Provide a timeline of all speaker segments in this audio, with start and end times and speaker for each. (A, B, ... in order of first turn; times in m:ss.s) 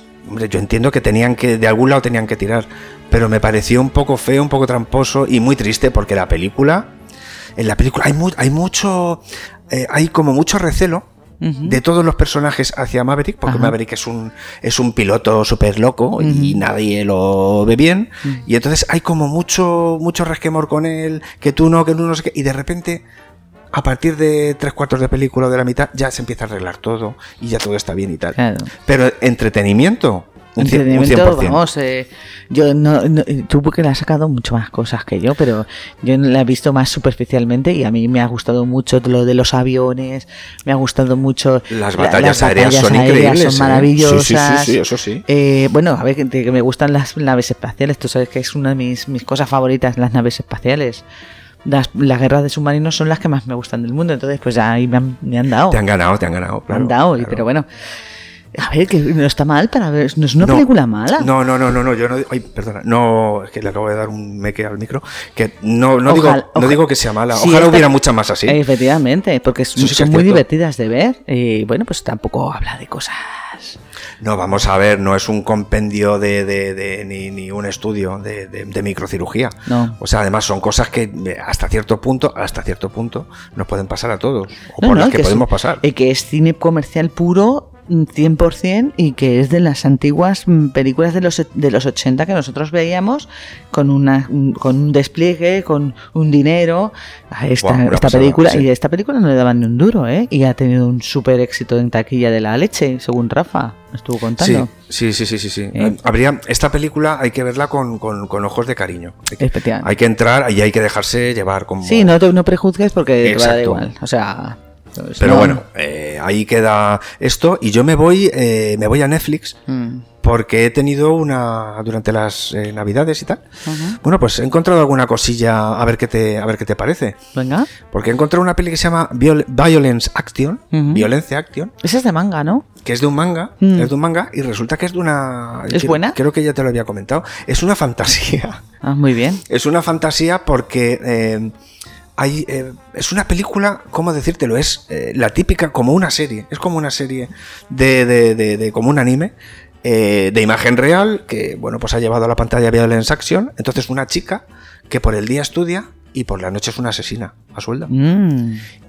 0:00.2-0:06.9 A
0:07.6-0:11.1 A
0:11.4-0:11.8 B
0:11.6-0:23.0 A
0:13.4-0:13.7 B
0:16.2-0:16.6 B
0:23.7-0:31.6 A
0:28.4-0:28.7 B
0:30.6-0:51.0 B
0:41.7-0:45.2 A
0:51.6-0:55.8 B
0:55.7-0:57.4 A
0:56.7-0:57.6 B
0:58.5-1:01.3 B
1:00.4-1:08.6 A
1:06.0-1:07.9 B
1:08.4-1:13.8 B
1:09.8-1:10.4 A
1:14.2-1:25.8 A
1:19.7-1:20.0 B
1:24.8-1:44.7 B
1:37.6-1:38.7 A
1:44.4-1:52.2 A
1:49.4-1:49.9 B
1:51.8-1:55.6 B
1:53.2-1:53.8 A
1:55.2-1:59.6 A
1:59.7-2:00.0 B
2:00.2-2:03.4 A
2:03.6-2:04.0 B
2:04.0-2:07.2 A
2:07.3-2:07.7 B
2:07.9-2:11.7 A
2:10.7-2:11.1 B
2:11.8-2:12.6 B
2:12.8-2:18.6 A
2:13.6-2:13.9 B
2:15.7-2:16.2 B
2:18.8-2:19.4 B
2:19.5-2:21.5 A
2:22.2-2:37.9 A
2:37.9-2:38.6 B